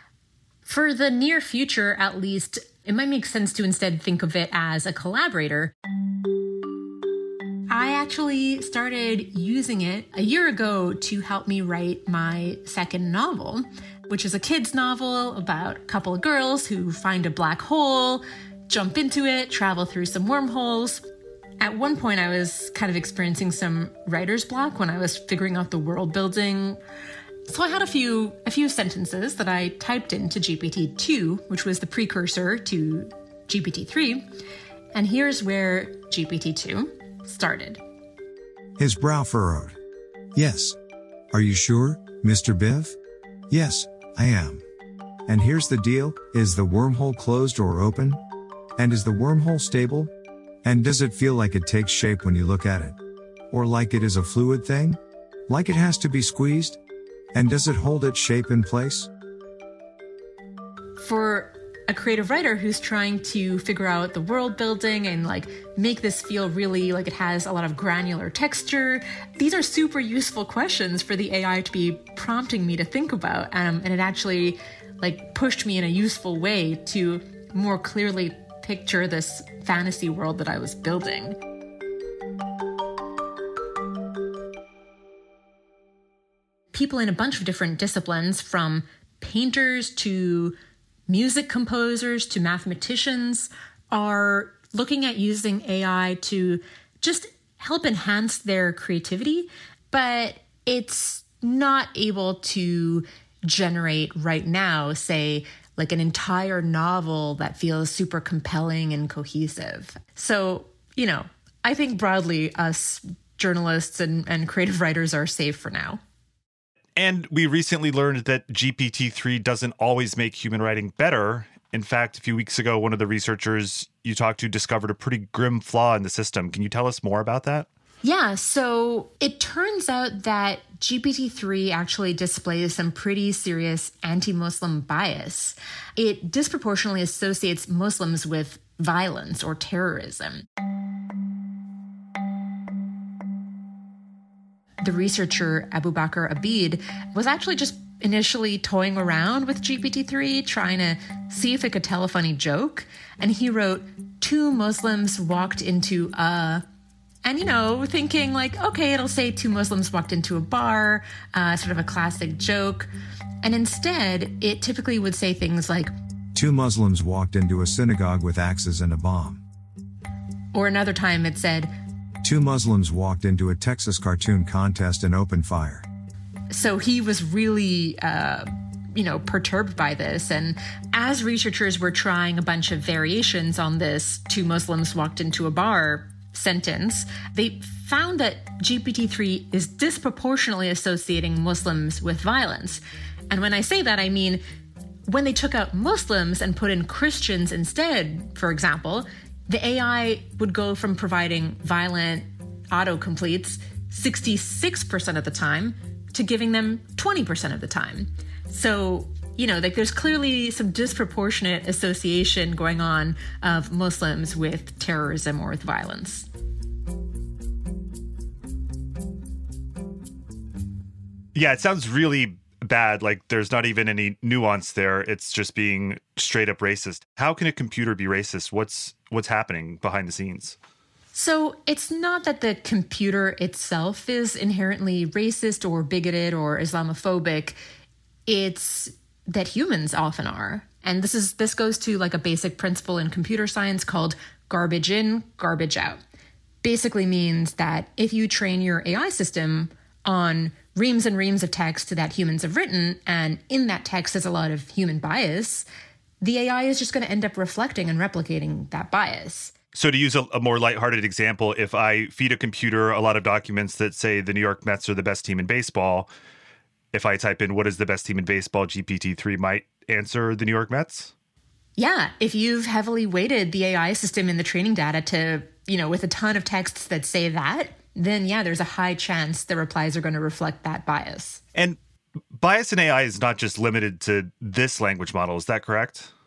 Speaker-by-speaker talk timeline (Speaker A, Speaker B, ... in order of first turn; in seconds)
Speaker A: 0.7-5.7, 7.7-21.0, 21.6-26.8, 27.5-34.3, 34.9-37.8, 61.0-81.4, 86.7-90.5, 91.1-116.0, 128.0-140.4, 144.8-156.6, 157.2-162.9, 163.4-165.9, 170.5-171.7, 176.5-194.4, 195.1-216.3, 231.1-237.6, 238.3-246.0, 246.6-255.7, 256.2-259.5, 271.8-281.4
Speaker B: 38.8-39.8, 40.3-40.8, 41.3-43.0, 43.5-44.6, 45.3-48.2, 48.8-50.1, 50.6-53.0, 53.5-56.8, 57.3-59.1, 166.3-169.4, 172.2-175.8
Speaker C: 117.0-127.7, 221.3-230.6, 259.7-266.1, 266.9-271.1, 282.4-286.1